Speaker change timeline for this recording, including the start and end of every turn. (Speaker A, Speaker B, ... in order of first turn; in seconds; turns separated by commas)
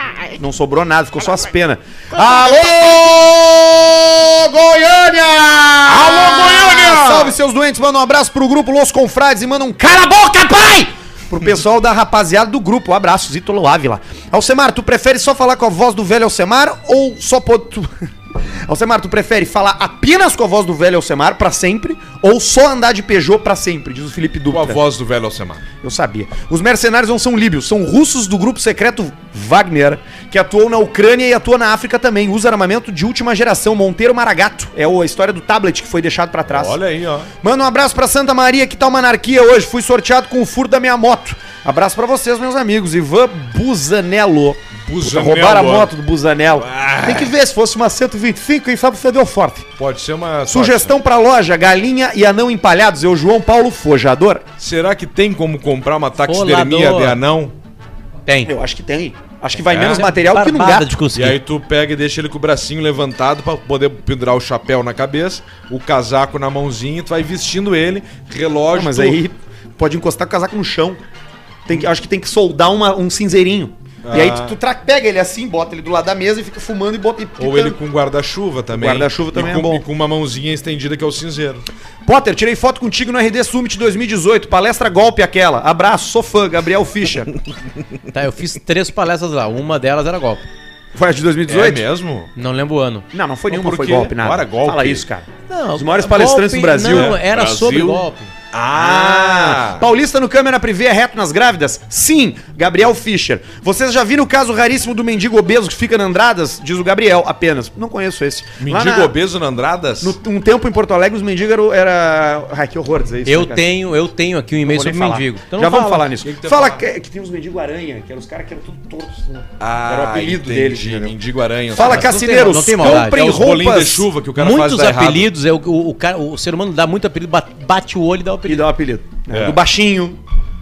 Speaker A: 0.3-17.9, Speaker B: 5.9-7.3, Speaker A: 18.7-24.8, Speaker B: 24.5-25.6, Speaker A: 25.8-36.8, Speaker B: 36.5-37.3, Speaker A: 37.4-49.7, Speaker B: 44.8-45.9, Speaker B: 46.6-47.3, Speaker B: 49.8-50.9, Speaker A: 50.5-54.5, Speaker B: 54.6-57.5, Speaker C: 56.2-57.2, Speaker C: 58.3-58.5, Speaker A: 58.5-60.9, Speaker B: 59.7-60.1, Speaker C: 59.8-61.4, Speaker B: 61.1-69.2, Speaker A: 68.7-71.0, Speaker A: 71.7-77.8, Speaker B: 74.0-74.5, Speaker B: 77.4-81.6, Speaker A: 78.7-79.8, Speaker A: 82.0-87.3, Speaker C: 88.1-90.5, Speaker A: 90.9-91.9, Speaker B: 91.5-92.3, Speaker C: 92.4-93.1, Speaker A: 93.1-97.2, Speaker B: 93.5-95.0, Speaker C: 95.5-98.3, Speaker B: 96.9-99.9, Speaker A: 98.7-109.1, Speaker B: 108.6-110.2, Speaker A: 110.0-113.7, Speaker C: 113.3-116.1, Speaker A: 114.6-121.1, Speaker B: 116.2-116.8, Speaker B: 119.6-125.3, Speaker A: 121.7-124.1, Speaker C: 121.8-123.4, Speaker C: 124.4-128.7, Speaker A: 128.4-130.2, Speaker B: 129.3-129.6